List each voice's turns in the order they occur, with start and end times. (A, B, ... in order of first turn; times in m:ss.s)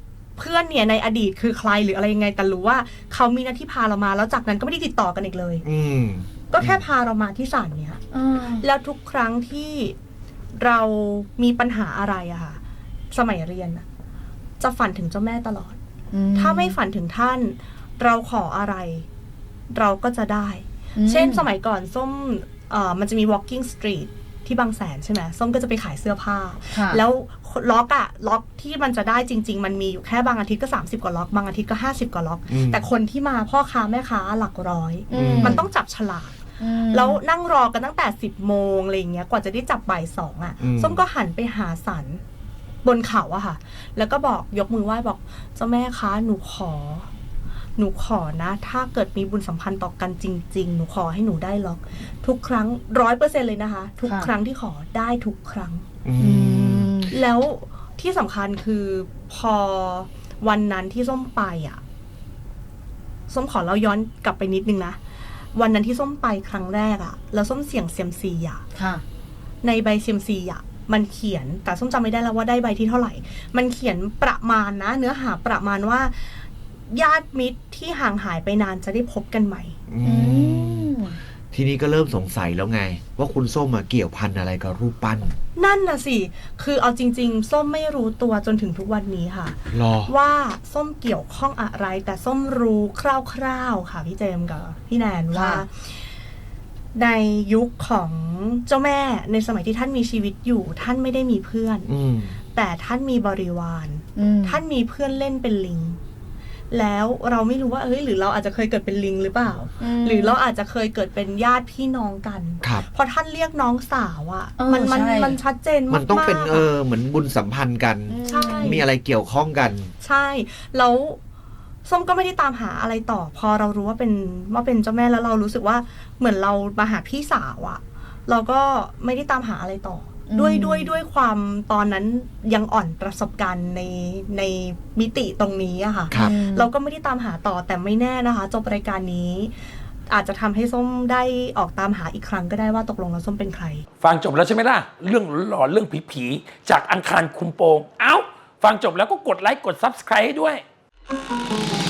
0:00.4-0:05.6 A
0:05.6-0:06.8 B
0:06.5-0:08.0 A
0:08.1-0:08.6 C
0:08.6-0:10.0 A
0:10.6-0:12.6 A
0:13.1-0:13.8 A
0:14.6-0:15.8 A
0:16.1-0:16.8 C
0:16.4-0:19.1 A
0:19.7-0:36.4 A
0:21.0-0:21.5 C
0:26.7-0:27.0 C
0:32.5-0:32.9 B
0:35.1-0:35.6 C
0:35.1-0:35.6 B
0:36.6-0:37.2 C
0:36.9-0:42.2 A
0:40.6-0:41.0 B
0:42.8-0:47.1 A
0:47.8-0:55.8 A
0:54.0-0:54.3 C
0:56.0-0:57.0 B
0:56.2-0:57.1 C
0:57.1-1:01.8 A
1:03.3-1:05.0 A
1:05.6-1:08.6 A
1:08.8-1:09.0 C
1:09.6-1:16.4 A
1:16.9-1:19.8 A
1:19.9-1:21.0 B
1:20.0-1:21.2 C
1:21.5-1:25.4 B
1:25.6-1:35.9 A
1:29.7-1:30.1 B
1:35.3-1:35.6 C
1:36.9-1:41.9 A
1:41.9-1:42.4 B
1:42.5-1:46.0 A
1:44.2-1:44.6 C
1:46.7-1:56.7 A
1:49.8-1:50.4 C
1:54.6-1:55.4 C
1:55.9-1:59.9 B
1:58.1-1:58.8 C
1:58.2-1:58.9 A
2:00.0-2:01.2 A
2:01.9-2:19.5 A
2:10.3-2:10.9 C
2:16.1-2:16.4 B
2:16.1-2:16.7 C
2:20.1-2:23.8 A
2:24.0-2:30.6 D